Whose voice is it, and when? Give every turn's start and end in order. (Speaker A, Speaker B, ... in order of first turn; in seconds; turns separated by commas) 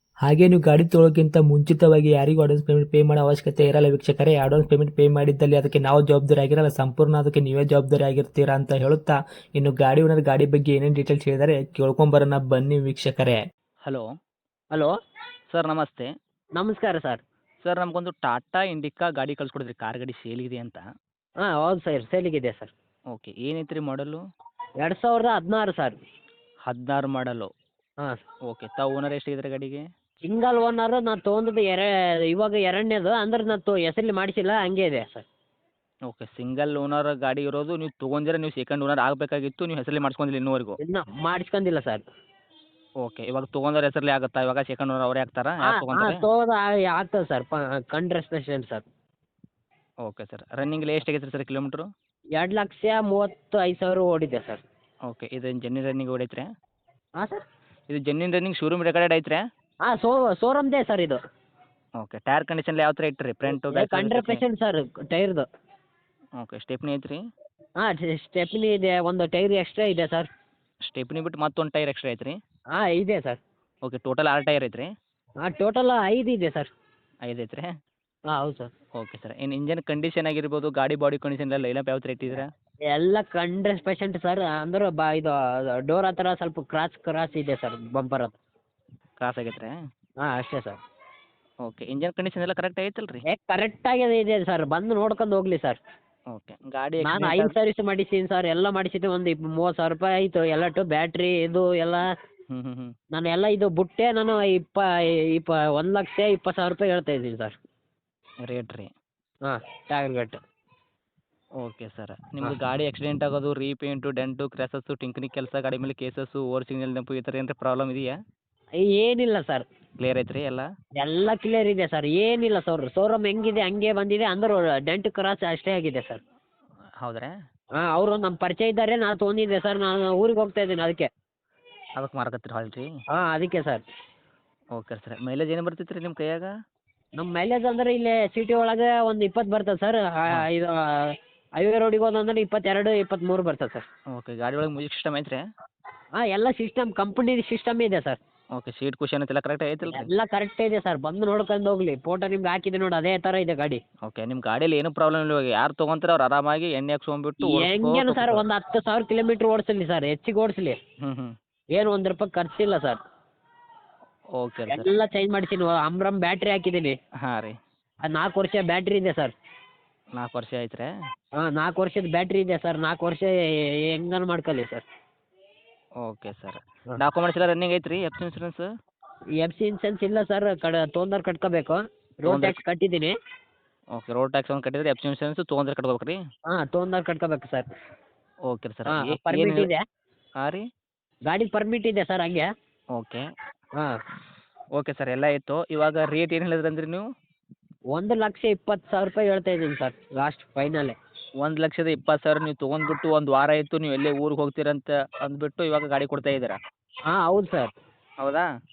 Speaker A: 0.2-13.4, Speaker B: 15.5-16.1, Speaker C: 16.6-17.2, Speaker B: 17.6-20.8, Speaker C: 21.4-22.7, Speaker B: 23.1-24.2, Speaker C: 24.8-26.0, Speaker B: 26.7-27.5, Speaker B: 28.5-29.8, Speaker C: 30.2-35.2, Speaker B: 36.1-40.8, Speaker C: 40.8-42.0, Speaker B: 43.0-46.2, Speaker C: 45.6-48.8, Speaker B: 50.0-51.8, Speaker C: 52.4-54.6, Speaker B: 55.1-56.5, Speaker B: 57.9-59.4, Speaker C: 59.8-61.2, Speaker B: 62.0-64.4, Speaker C: 63.5-65.4, Speaker B: 66.4-67.2, Speaker C: 67.8-70.3, Speaker B: 70.9-72.3, Speaker C: 72.7-73.4, Speaker B: 73.8-74.9, Speaker C: 75.4-76.7, Speaker B: 77.3-77.7, Speaker C: 78.3-78.7, Speaker B: 79.0-82.5, Speaker C: 82.9-88.3, Speaker B: 89.2-89.7, Speaker C: 90.2-90.8, Speaker B: 91.6-93.2, Speaker C: 93.3-95.8, Speaker B: 96.3-97.5, Speaker C: 97.0-102.1, Speaker B: 102.5-102.9, Speaker C: 103.1-107.5, Speaker B: 108.5-108.9, Speaker C: 109.4-110.4, Speaker B: 111.6-118.1, Speaker C: 118.8-119.6, Speaker B: 120.0-120.6, Speaker C: 121.0-126.2, Speaker B: 127.0-127.3, Speaker C: 127.8-131.1, Speaker B: 132.0-132.9, Speaker C: 133.1-133.8, Speaker B: 134.7-136.5, Speaker C: 137.2-143.8, Speaker B: 144.1-145.4, Speaker C: 146.2-148.2, Speaker B: 148.5-150.1, Speaker C: 149.9-153.8, Speaker B: 154.0-158.4, Speaker C: 157.4-160.8, Speaker B: 161.0-161.3, Speaker C: 161.7-163.0, Speaker B: 164.4-164.9, Speaker C: 164.7-166.9, Speaker B: 167.2-167.5, Speaker C: 168.0-169.3, Speaker B: 170.2-170.9, Speaker C: 171.4-173.3, Speaker C: 173.9-174.8, Speaker B: 176.0-178.7, Speaker C: 179.4-183.1, Speaker B: 182.3-182.6, Speaker B: 183.9-186.2, Speaker C: 186.5-187.6, Speaker B: 188.5-189.7, Speaker C: 188.9-189.8, Speaker C: 191.3-192.5, Speaker B: 192.9-193.2, Speaker B: 194.8-197.0, Speaker C: 197.9-200.9, Speaker B: 201.4-206.6, Speaker C: 207.1-207.7, Speaker B: 208.2-208.5